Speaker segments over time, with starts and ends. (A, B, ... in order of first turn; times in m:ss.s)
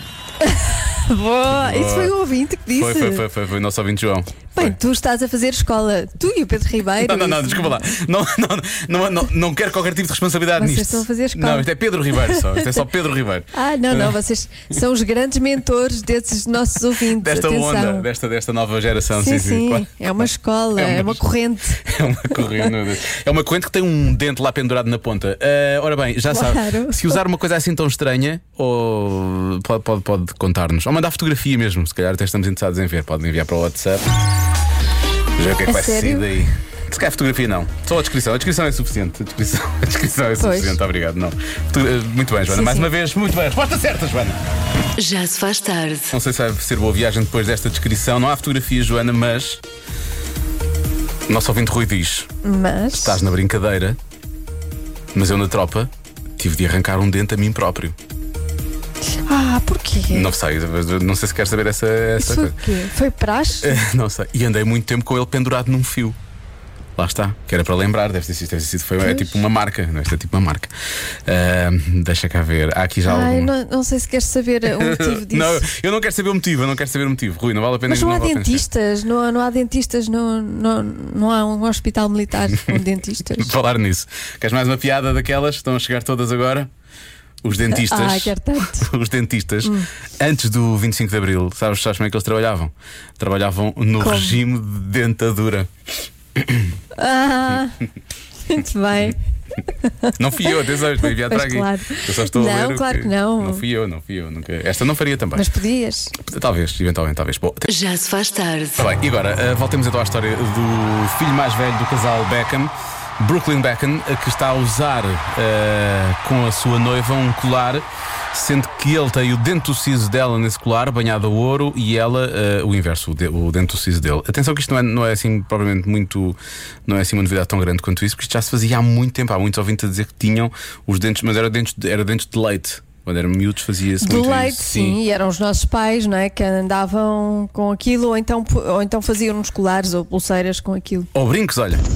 0:00.4-0:03.2 A
0:01.5-0:02.1 B
0:02.8-0:04.8 B
0:04.5-0:07.9 A
0:07.0-0:14.2 B
0:10.6-0:11.7 A
0:13.5-0:18.1 A
0:17.1-0:20.2 B
0:19.2-0:21.8 A
0:20.7-0:21.2 B
0:21.8-0:34.2 B
0:26.3-0:27.2 A
0:35.4-0:44.4 B
0:35.6-0:36.3 A
0:40.4-0:40.8 A
0:42.5-0:42.9 A
0:45.0-0:46.1 C
0:46.1-0:49.6 B
0:51.3-0:52.3 B
0:52.4-0:53.2 A
0:52.9-0:54.0 B
0:55.1-0:58.0 B
0:59.2-1:00.3 A
1:00.1-1:02.6 B
1:02.2-1:03.8 A
1:03.6-1:06.2 B
1:07.0-1:10.7 B
1:09.0-1:09.4 A
1:11.2-1:13.5 B
1:13.0-1:15.7 A
1:14.6-1:18.6 B
1:17.9-1:23.6 A
1:23.4-1:26.7 B
1:27.4-1:35.7 B
1:27.7-1:28.9 A
1:34.0-1:34.4 A
1:36.3-1:36.7 B
1:37.0-1:37.8 A
1:38.5-1:39.2 A
1:39.9-1:40.1 A
1:40.2-1:45.5 B
1:41.0-1:43.6 A
1:45.3-1:46.1 A
1:46.1-1:47.7 B
1:47.7-1:48.8 C
1:48.8-2:15.0 B
2:14.0-2:21.1 A
2:21.1-2:21.8 B